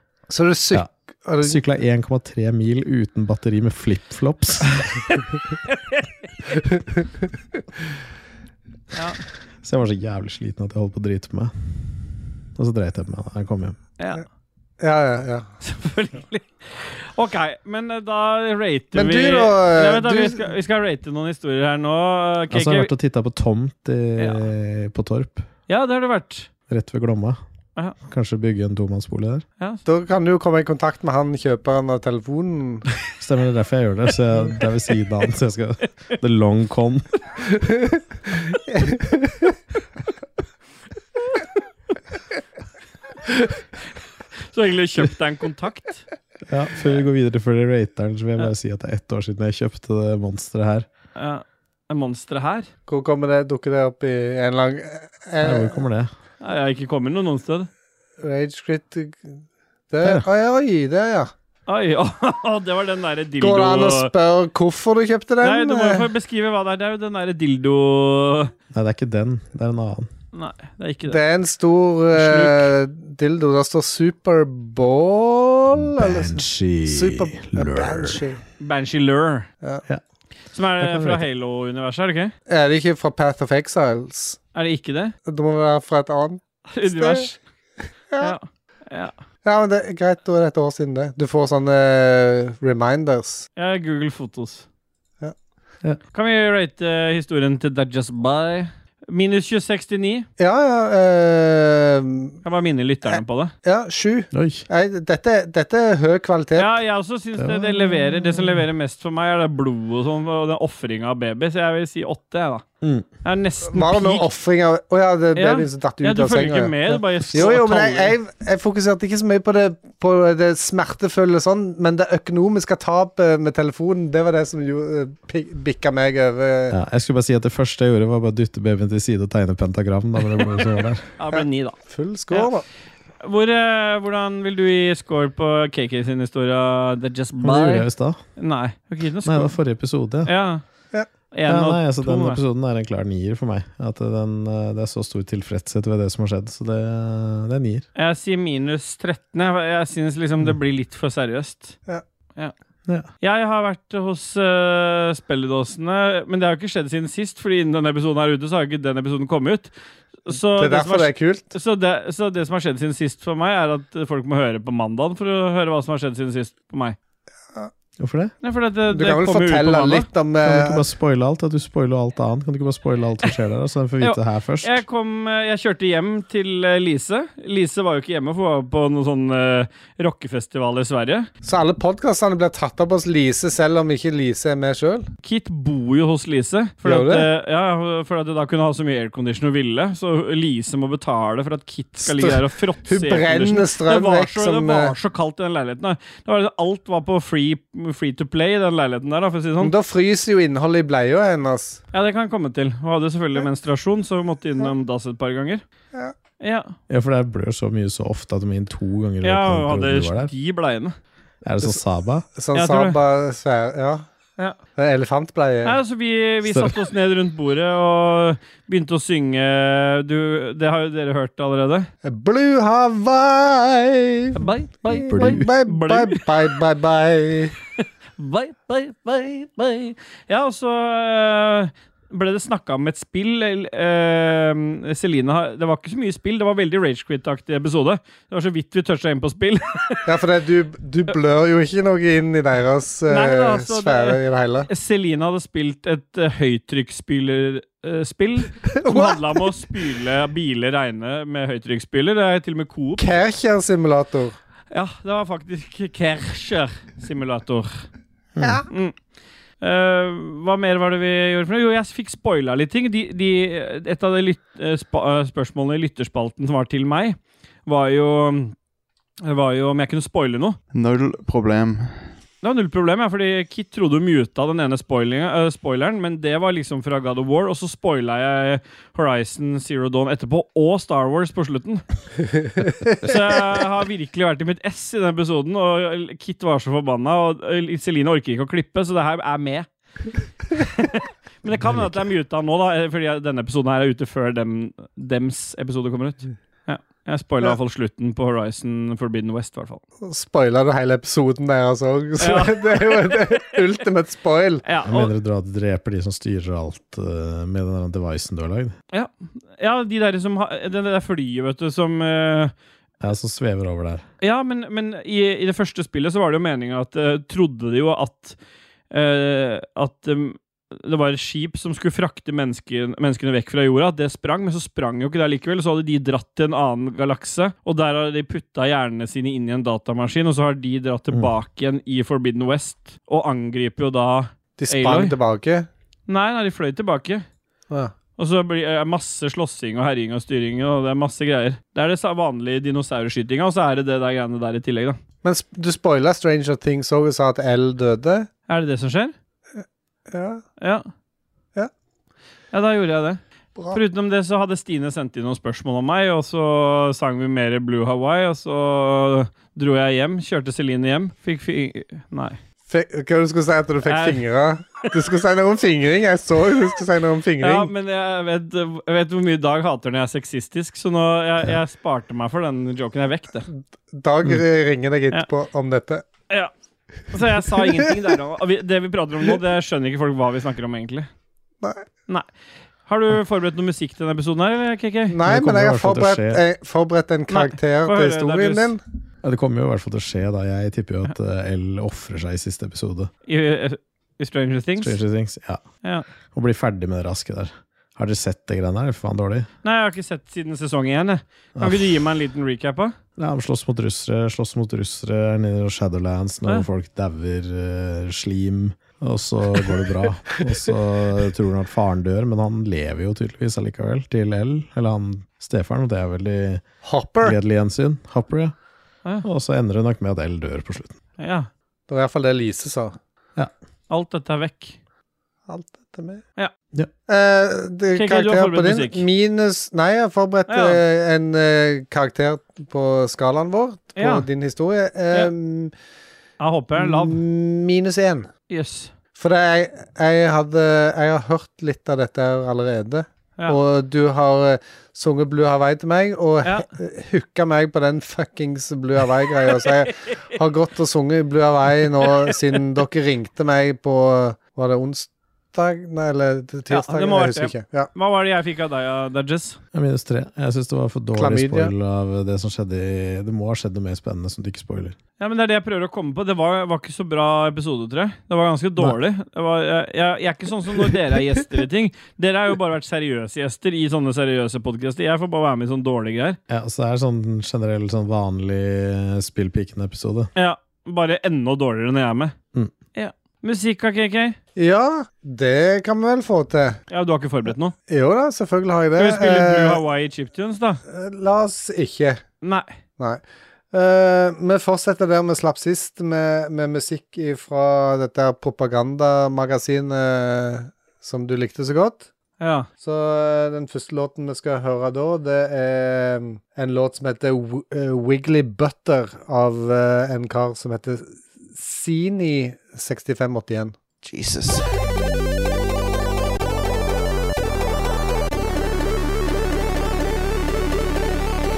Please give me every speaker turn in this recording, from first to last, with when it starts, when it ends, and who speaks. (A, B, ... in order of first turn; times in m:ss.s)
0:00.3-0:01.6 A
0:01.4-0:05.0 B
0:08.9-0:09.2 C
0:09.6-0:11.5 B
0:12.6-0:13.8 B
0:14.0-0:14.2 C
0:14.8-0:15.5 A
0:15.6-0:22.9 C
0:18.9-0:20.5 A
0:22.5-0:25.5 B
0:24.2-0:24.4 C
0:25.7-0:26.5 C
0:26.7-0:27.4 B
0:28.0-0:29.4 B
0:29.8-0:32.8 A
0:33.2-0:37.1 B
0:38.7-0:39.5 A
0:44.5-0:46.1 C
0:46.5-0:50.9 B
0:51.2-0:52.7 C
0:52.9-0:55.8 A
0:55.4-0:56.1 B
0:56.4-0:57.7 C
0:58.2-0:59.4 A
0:59.9-1:01.3 A
1:01.7-1:04.1 C
1:03.4-1:06.1 A
1:05.4-1:08.5 C
1:08.7-1:10.1 B
1:10.3-1:11.2 C
1:11.1-1:18.4 A
1:12.1-1:12.7 C
1:15.8-1:18.2 B
1:18.6-1:19.5 C
1:20.5-1:22.3 C
1:20.8-1:21.2 B
1:22.5-1:24.4 A
1:24.5-1:25.1 C
1:25.2-1:27.3 A
1:26.7-1:27.4 C
1:28.2-1:29.1 C
1:29.4-1:33.5 A
1:33.6-1:34.6 C
1:36.1-1:40.3 C
1:40.4-1:42.4 A
1:42.4-1:43.5 C
1:43.6-1:46.7 A
1:44.3-1:44.6 B
1:46.6-1:52.6 C
1:47.4-1:48.6 B
1:52.8-1:53.1 B
1:53.2-1:54.2 C
1:53.7-2:06.8 A
1:55.4-1:58.1 C
2:06.7-2:11.0 B
2:11.2-2:11.8 C
2:11.3-2:12.6 A
2:13.2-2:19.5 C
2:17.4-2:18.2 B
2:19.2-2:20.3 B
2:20.2-2:20.6 C
2:21.3-2:22.4 C
2:21.5-2:27.9 B
2:28.0-2:31.8 C
2:33.2-2:39.7 C
2:40.2-2:47.0 C
2:40.3-2:41.5 A
2:48.0-2:48.3 B
2:48.4-2:50.1 C
2:48.9-2:50.8 A
2:50.4-2:54.8 B
2:54.0-3:01.3 C
3:01.4-3:05.1 A
3:05.2-3:19.7 C
3:06.8-3:07.3 A
3:12.0-3:14.9 A
3:19.6-3:21.8 A
3:21.9-3:25.6 C
3:26.4-3:26.7 C
3:26.9-3:30.3 B
3:29.2-3:30.9 C
3:31.4-3:32.3 B
3:32.4-3:34.0 A
3:32.5-3:33.0 C
3:34.8-3:35.8 A
3:35.6-3:41.9 C
3:36.4-3:36.8 B
3:42.0-3:44.4 A
3:44.4-3:46.2 C
3:44.9-3:47.5 A
3:45.1-3:45.5 B
3:47.8-4:00.1 C
4:00.0-4:04.7 A
4:03.1-4:13.2 C
4:08.7-4:09.2 A
4:13.0-4:14.4 A
4:14.7-4:17.8 C
4:18.4-4:18.6 B
4:18.4-4:18.6 A
4:18.7-4:19.0 C
4:19.6-4:28.5 C
4:29.2-4:30.6 C
4:30.7-4:32.2 D
4:32.4-4:41.8 C
4:42.9-4:49.7 C
4:50.5-4:59.8 C
4:51.6-4:52.0 B
5:00.0-5:04.6 A
5:02.2-5:03.4 C
5:04.6-5:05.1 C
5:04.8-5:08.7 B
5:08.9-5:12.5 C
5:13.0-5:14.0 B
5:14.2-5:18.4 C
5:18.9-5:35.1 C
5:34.6-5:35.7 A
5:36.1-5:37.2 C
5:38.2-5:45.0 C
5:45.2-5:48.3 A
5:48.5-5:49.1 C
5:49.6-5:50.4 A
5:50.6-5:50.9 C
5:52.5-5:53.2 C
5:53.7-6:02.4 C
6:02.7-6:07.7 A
6:03.8-6:04.2 C
6:07.4-6:13.5 C
6:13.5-6:16.0 A
6:17.1-6:21.1 C
6:22.8-6:25.2 C
6:25.1-6:28.8 A
6:25.2-6:26.4 B
6:27.3-6:28.7 C
6:29.2-6:33.1 B
6:33.3-6:35.0 C
6:34.8-6:35.6 B
6:36.3-6:39.5 B
6:39.6-6:42.9 C
6:41.6-6:42.0 B
6:43.2-6:56.6 B
6:56.8-6:57.4 A
6:57.2-6:58.5 B
6:59.2-7:01.0 B
7:01.2-7:01.5 C
7:01.9-7:03.0 A
7:03.9-7:04.8 C
7:05.5-7:06.2 A
7:07.1-7:15.7 A
7:07.9-7:09.0 C
7:10.5-7:10.8 C
7:14.0-7:14.2 C
7:16.4-7:17.2 C
7:16.8-7:18.3 A
7:18.5-7:18.9 C
7:19.2-7:37.9 A
7:36.7-7:39.6 C
7:39.7-7:45.0 B
7:41.2-7:41.7 A
7:45.2-7:56.4 C
7:56.5-8:00.3 B
8:00.4-8:02.3 C
8:02.9-8:04.4 C
8:04.6-8:06.8 A
8:06.9-8:07.7 C
8:07.9-8:09.8 A
8:09.0-8:10.8 C
8:10.9-8:12.2 A
8:12.4-8:12.7 C
8:13.7-8:22.1 A
8:22.4-8:22.7 C
8:22.8-8:33.8 A
8:34.0-8:34.9 D